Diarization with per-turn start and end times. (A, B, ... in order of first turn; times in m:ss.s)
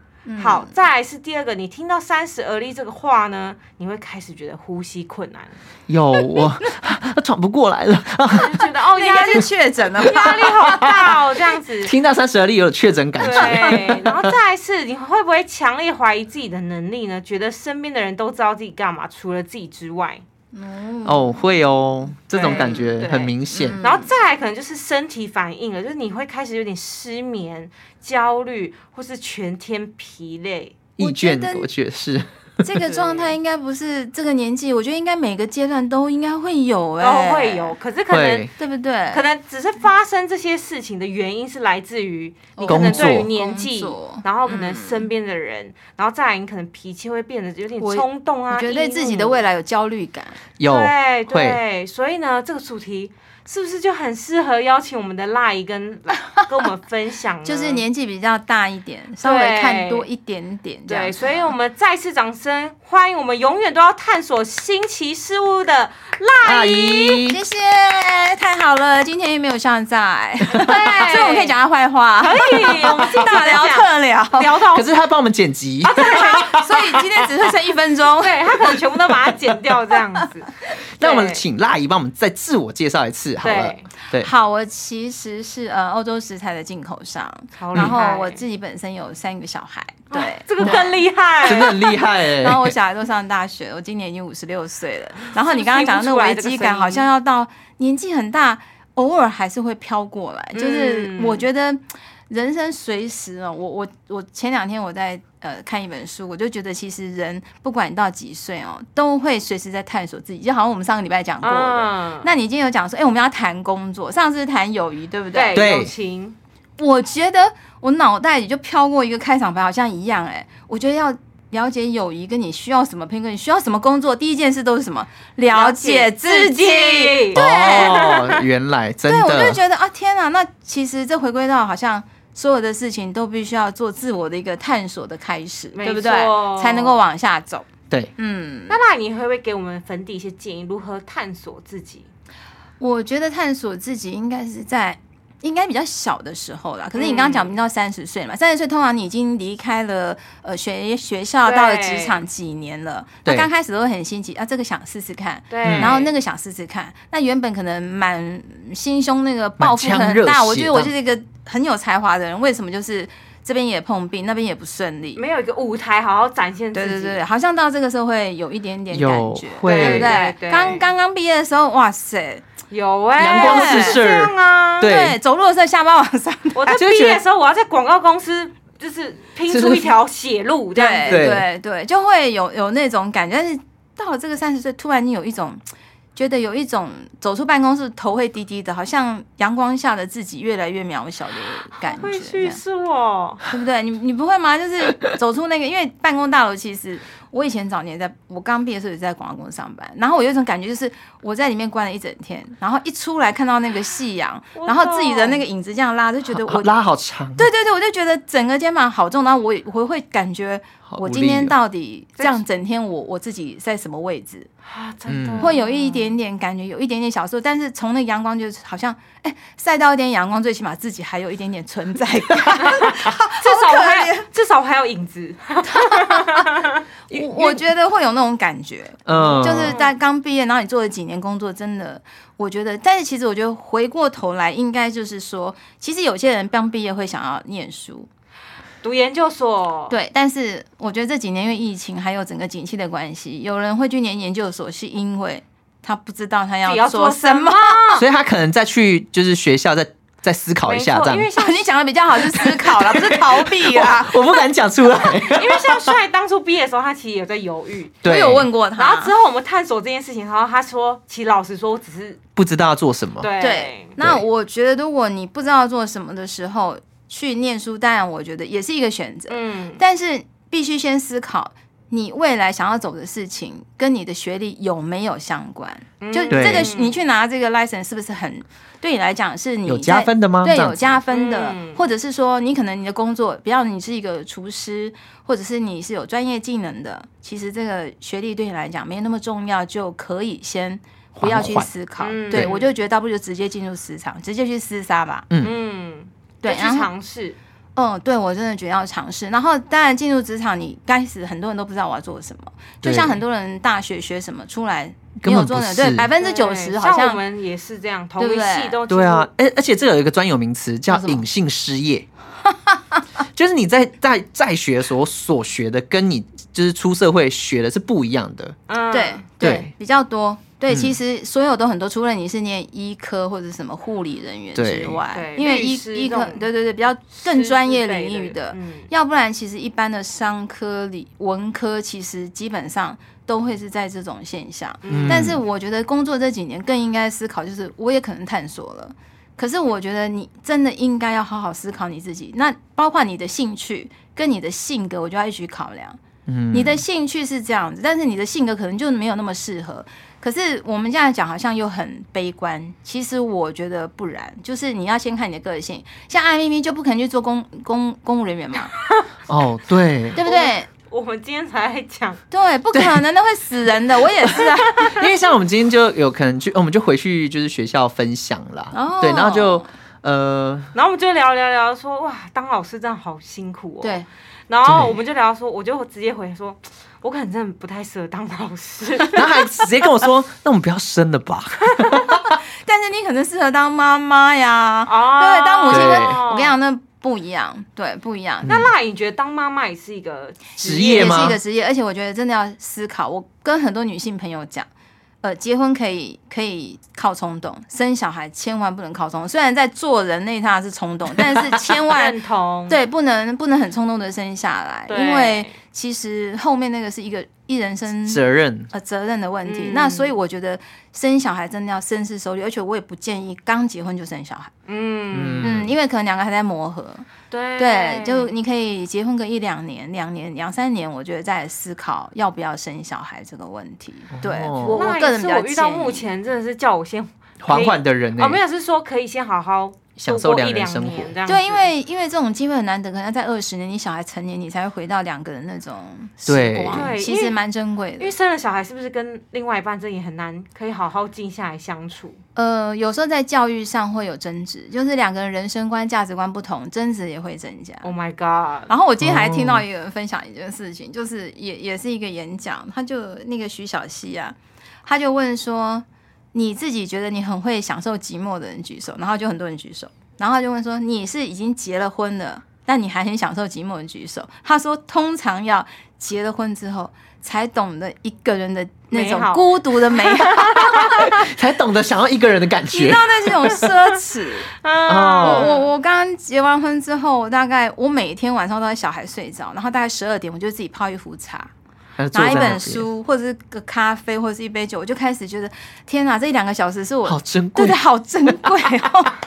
0:00.2-0:00.7 A
0:00.4-0:05.6 B
0:05.9-0:08.7 C
0:08.4-0:11.9 B
0:08.9-0:11.1 A
0:10.6-0:11.1 C
0:11.8-0:14.3 C
0:13.2-0:20.2 B
0:13.4-0:13.8 A
0:20.5-0:21.5 A
0:21.0-0:23.8 C
0:22.3-0:30.8 B
0:22.4-0:22.8 A
0:23.5-0:24.1 A
0:31.0-0:32.6 C
0:31.0-0:31.7 A
0:32.6-0:37.8 A
0:32.8-0:33.4 B
0:37.0-0:38.5 B
0:38.1-0:38.5 C
0:38.6-0:39.2 A
0:39.1-0:49.4 B
0:42.6-0:45.1 A
0:42.7-0:43.3 C
0:47.8-0:50.4 A
0:50.6-0:51.6 C
0:50.6-0:57.8 B
0:57.4-1:01.5 A
0:59.2-1:00.1 B
1:00.9-1:07.3 B
1:06.4-1:07.4 C
1:07.2-1:14.5 A
1:10.6-1:11.5 B
1:12.2-1:14.9 B
1:14.7-1:17.0 C
1:15.8-1:16.4 B
1:15.9-1:18.8 A
1:18.1-1:21.4 B
1:21.0-1:24.3 C
1:23.4-1:23.9 B
1:24.2-1:55.6 A
1:27.6-1:28.4 B
1:30.1-1:32.0 B
1:30.6-1:30.8 C
1:31.4-1:32.7 C
1:35.3-1:37.1 B
1:40.5-1:41.5 B
1:51.4-1:52.3 B
1:55.3-1:56.4 B
1:55.5-1:55.9 C
1:56.8-2:08.2 A
2:05.5-2:08.4 B
2:07.3-2:09.6 C
2:09.0-2:17.6 A
2:15.8-2:17.0 B
2:18.2-2:18.8 A
2:18.7-2:22.1 B
2:22.8-2:45.2 A
2:27.0-2:27.5 B
2:31.4-2:32.2 B
2:35.5-2:36.1 B
2:35.6-2:35.9 C
2:39.6-2:40.9 C
2:45.1-2:47.2 B
2:46.7-2:52.4 A
2:48.9-2:50.2 C
2:49.6-2:50.8 B
2:52.7-2:54.9 B
2:53.2-2:55.2 C
2:53.3-2:54.0 A
2:54.8-2:56.8 A
2:56.6-3:01.3 B
2:56.7-2:57.2 C
2:59.5-2:59.9 C
3:00.7-3:05.6 A
3:01.0-3:01.4 C
3:06.2-3:12.6 A
3:11.8-3:13.4 B
3:13.4-3:26.8 A
3:24.6-3:25.4 B
3:26.3-3:27.5 C
3:27.4-3:34.5 A
3:30.9-3:31.5 C
3:34.6-3:36.2 B
3:35.1-3:35.5 C
3:35.4-3:44.3 A
3:42.4-3:43.0 C
3:43.4-3:46.8 B
3:45.7-3:46.5 A
3:47.1-3:47.6 C
3:47.1-3:58.1 A
3:49.0-3:49.8 C
3:49.1-3:49.9 B
3:58.8-3:59.9 B
3:59.9-4:07.9 A
4:06.6-4:08.0 B
4:07.9-4:11.3 C
4:10.7-4:11.7 B
4:11.4-4:14.2 A
4:12.8-4:16.0 C
4:15.2-4:18.0 B
4:18.0-4:18.5 C
4:18.0-4:19.1 A
4:18.8-4:22.2 B
4:22.4-4:23.3 C
4:23.2-4:23.9 B
4:23.4-4:55.3 A
4:29.3-4:29.8 B
4:36.0-4:37.0 B
4:36.3-4:36.7 C
4:39.6-4:41.0 C
4:41.1-4:41.8 B
4:51.2-4:51.7 C
4:52.0-4:52.7 B
4:55.3-4:55.5 C
4:55.4-4:57.4 B
4:56.4-4:56.9 A
4:57.8-5:07.2 A
5:02.8-5:03.2 C
5:05.2-5:06.1 C
5:06.2-5:09.3 B
5:08.2-5:08.8 A
5:08.9-5:12.1 C
5:10.9-5:11.2 A
5:12.5-5:13.0 A
5:13.3-5:18.6 C
5:18.7-5:19.2 B
5:18.9-5:46.0 A
5:19.4-5:19.7 C
5:20.7-5:20.9 C
5:24.5-5:25.0 C
5:25.1-5:26.5 B
5:27.2-5:28.9 B
5:34.8-5:35.3 B
5:34.9-5:35.4 C
5:46.3-5:46.8 C
5:46.5-5:58.7 A
5:59.3-6:00.2 C
6:00.1-6:00.7 A
6:00.2-6:02.2 B
6:02.3-6:05.0 A
6:02.7-6:03.0 C
6:04.3-6:10.7 C
6:04.8-6:05.1 B
6:08.7-6:09.7 A
6:10.7-6:14.0 B
6:13.8-6:14.1 A
6:14.5-6:19.6 B
6:14.6-6:14.9 C
6:19.1-6:22.4 C
6:22.3-6:28.5 A
6:24.9-6:26.6 B
6:25.7-6:26.2 C
6:28.4-6:31.4 B
6:28.4-6:28.7 C
6:30.6-6:31.4 C
6:30.6-6:34.7 A
6:35.2-6:42.2 A
6:41.7-6:42.8 B
6:42.7-6:54.5 A
6:44.9-6:45.6 B
6:48.1-6:48.7 C
6:49.4-6:50.1 B
6:54.7-6:55.6 B
6:55.1-6:55.7 C
6:55.4-7:06.1 A
6:57.3-6:58.3 B
7:04.2-7:04.9 C
7:04.6-7:11.7 B
7:07.4-7:08.4 C
7:10.0-7:11.1 C
7:11.3-7:18.1 A
7:16.3-7:16.9 C
7:16.7-7:17.4 B
7:18.0-7:22.2 B
7:22.4-7:27.9 A
7:27.8-7:28.7 B
7:28.7-7:51.3 A
7:29.0-7:29.6 C
7:48.9-7:50.9 B
7:50.7-7:53.6 C
7:52.7-7:54.5 A
7:54.5-7:55.7 B
7:54.9-7:55.5 C
7:55.2-8:01.5 A
8:02.0-8:02.8 C
8:02.1-8:09.1 A
8:07.0-8:08.5 C